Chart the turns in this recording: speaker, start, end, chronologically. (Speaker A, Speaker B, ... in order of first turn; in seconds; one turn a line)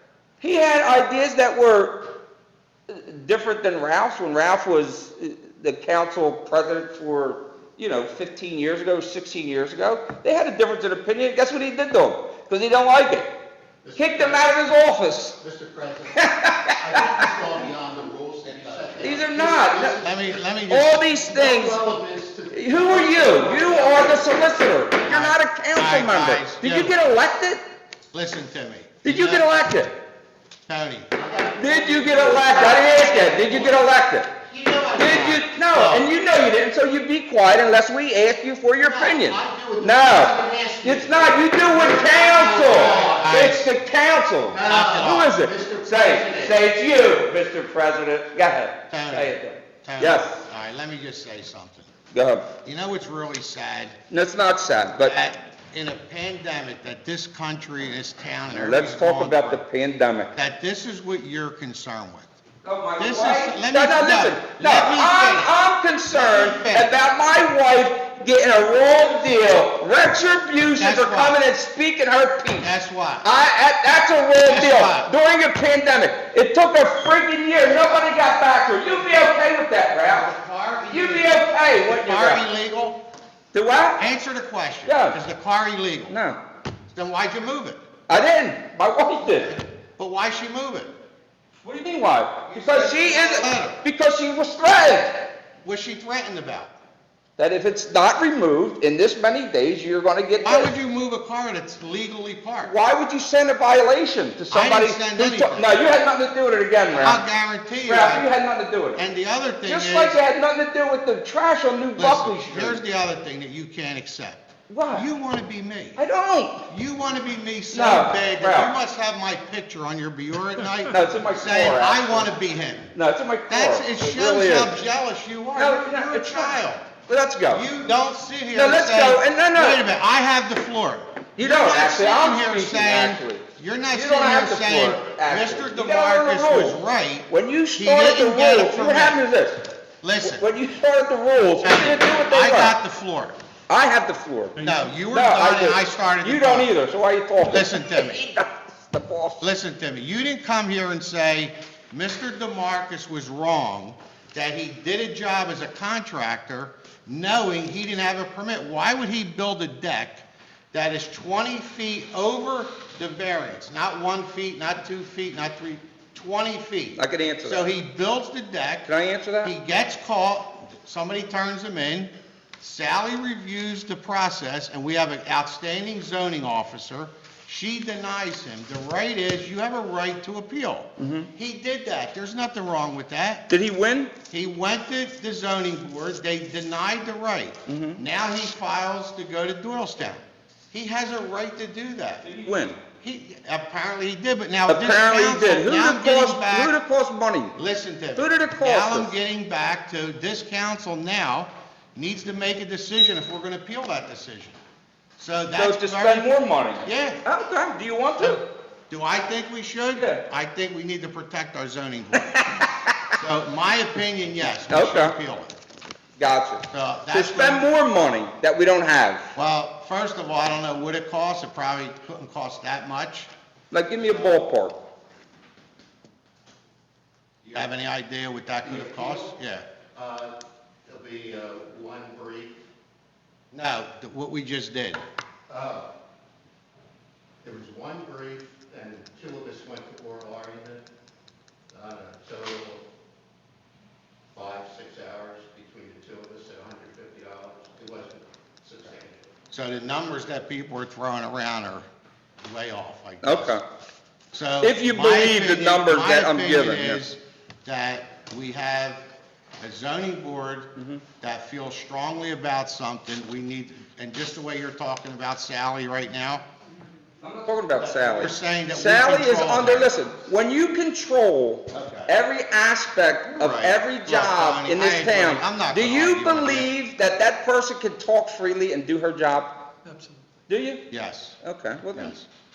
Speaker A: 0.4-2.2
Speaker A: 2.9-13.3
Speaker B: 13.8-14.4
Speaker A: 13.9-15.4
Speaker B: 15.4-20.4
Speaker A: 16.1-17.2
Speaker A: 19.0-20.0
Speaker C: 19.9-21.1
Speaker A: 20.7-21.8
Speaker B: 21.2-24.6
Speaker A: 22.5-27.6
Speaker C: 25.0-27.0
Speaker C: 28.1-29.5
Speaker A: 29.0-29.9
Speaker C: 30.7-31.1
Speaker B: 31.1-33.9
Speaker A: 31.5-34.3
Speaker C: 34.4-36.1
Speaker A: 34.9-50.4
Speaker C: 38.9-39.4
Speaker B: 39.1-43.3
Speaker C: 39.9-40.2
Speaker C: 42.6-43.7
Speaker B: 44.5-46.6
Speaker C: 44.6-45.4
Speaker C: 48.9-51.9
Speaker A: 52.1-52.5
Speaker C: 52.6-54.0
Speaker A: 54.1-55.1
Speaker C: 55.0-59.6
Speaker A: 58.5-60.3
Speaker C: 60.3-62.3
Speaker A: 62.6-72.7
Speaker C: 63.0-65.6
Speaker C: 66.1-66.9
Speaker C: 70.8-71.4
Speaker C: 72.6-73.3
Speaker A: 73.2-80.3
Speaker C: 74.4-75.1
Speaker C: 80.0-83.0
Speaker A: 80.9-82.4
Speaker A: 83.5-84.0
Speaker C: 84.0-86.1
Speaker A: 84.8-85.2
Speaker A: 86.1-86.4
Speaker C: 86.9-87.8
Speaker A: 88.1-89.6
Speaker C: 89.5-90.9
Speaker A: 91.6-95.3
Speaker C: 92.5-93.8
Speaker C: 95.6-96.7
Speaker A: 97.4-100.7
Speaker C: 100.4-102.7
Speaker A: 102.6-107.2
Speaker C: 104.5-105.8
Speaker C: 106.9-108.3
Speaker A: 107.8-109.0
Speaker C: 108.9-110.2
Speaker A: 109.6-112.8
Speaker C: 112.0-116.0
Speaker A: 114.7-115.1
Speaker A: 116.0-116.6
Speaker C: 116.7-122.9
Speaker A: 117.7-118.7
Speaker A: 120.9-122.3
Speaker A: 122.9-124.8
Speaker C: 123.5-126.9
Speaker A: 125.5-127.7
Speaker C: 127.5-139.2
Speaker A: 128.5-129.8
Speaker A: 131.4-139.6
Speaker C: 140.0-140.4
Speaker A: 140.2-142.8
Speaker C: 141.6-143.4
Speaker A: 143.7-149.4
Speaker C: 144.6-146.7
Speaker C: 147.4-148.2
Speaker C: 149.4-168.9
Speaker A: 166.9-167.7
Speaker A: 168.8-169.5
Speaker C: 169.4-183.5
Speaker A: 181.0-181.3
Speaker A: 183.5-184.1
Speaker C: 184.3-192.3
Speaker A: 187.7-188.0
Speaker A: 192.2-192.8
Speaker C: 193.0-196.8
Speaker A: 194.7-197.5
Speaker C: 197.5-204.6
Speaker A: 198.2-199.1
Speaker C: 205.2-206.3
Speaker A: 205.5-208.4
Speaker C: 206.8-207.2
Speaker C: 208.9-212.5
Speaker A: 209.9-210.2
Speaker A: 212.2-213.1
Speaker C: 213.1-215.5
Speaker A: 214.7-215.1
Speaker A: 216.2-219.3
Speaker C: 216.7-217.7
Speaker C: 219.3-223.3
Speaker A: 223.7-224.8
Speaker C: 227.5-229.6
Speaker B: 228.6-229.3
Speaker B: 229.9-230.3
Speaker B: 230.9-232.6
Speaker C: 233.5-235.0
Speaker B: 235.5-235.9
Speaker B: 237.4-240.8
Speaker B: 241.7-242.8
Speaker B: 244.3-249.2
Speaker C: 249.5-251.9
Speaker C: 252.4-253.6
Speaker A: 253.2-253.6
Speaker C: 254.3-259.1
Speaker A: 254.6-257.0
Speaker C: 259.6-266.4
Speaker A: 260.8-261.0
Speaker A: 267.2-279.7
Speaker C: 267.8-270.0
Speaker C: 271.7-272.1
Speaker C: 273.3-276.7
Speaker A: 280.5-280.9
Speaker C: 280.9-281.4
Speaker A: 281.4-282.2
Speaker C: 281.9-282.2